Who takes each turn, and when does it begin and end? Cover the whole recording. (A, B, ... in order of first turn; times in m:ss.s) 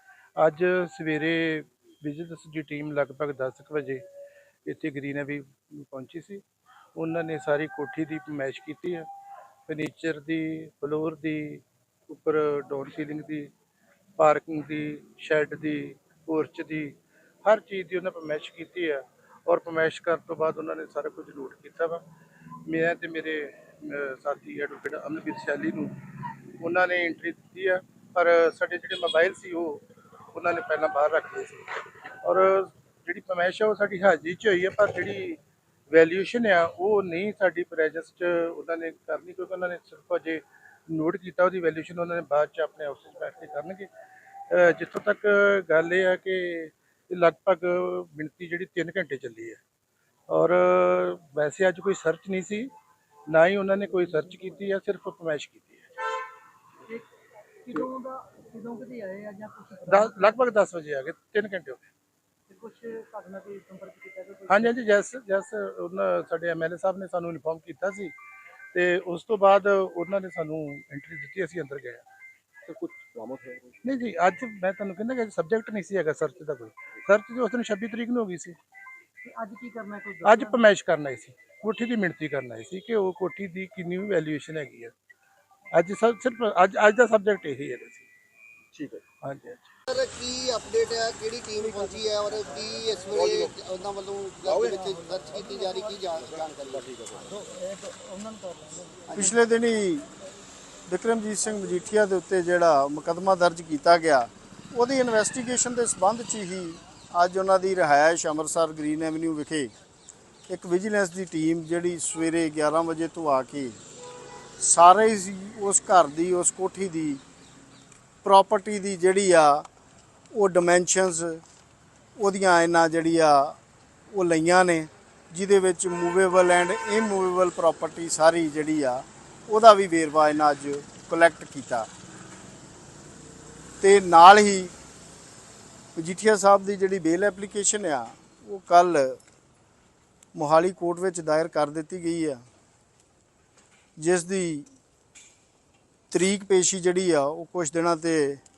0:00.4-0:04.0 A
0:04.7-0:06.4 A
0:07.0-0:09.1 A
0:09.7-0:13.5 A
0:14.2-0:22.0 A
0:22.6-0:26.0 A
0:26.6-0:43.9 A
0:44.5-0:49.6 A
0:50.3-0:52.7 A
0:53.3-0:56.0 A
0:57.7-1:00.2 B
0:59.8-1:01.8 A
1:02.5-1:04.7 B
1:04.5-1:08.1 A
1:08.7-1:12.0 A
1:12.7-1:13.8 C
1:13.8-1:18.6 A
1:19.2-1:20.6 B
1:20.2-1:24.9 A
1:25.7-1:28.1 A
1:28.7-1:29.0 C
1:29.2-1:29.7 A
1:29.9-1:37.0 D
1:33.1-1:33.5 C
1:34.5-1:35.5 C
1:36.1-1:37.5 C
1:37.4-1:39.1 B
1:39.1-1:40.1 E
1:40.9-1:49.7 E
1:50.5-1:53.8 E
1:54.6-1:57.2 E
1:58.2-1:59.7 E
2:00.3-2:01.4 E
2:02.2-2:03.6 E
2:04.1-2:11.9 E
2:13.8-2:14.7 E
2:16.0-2:19.2 E
2:20.3-2:22.4 E
2:24.0-2:24.7 E
2:26.1-2:28.4 E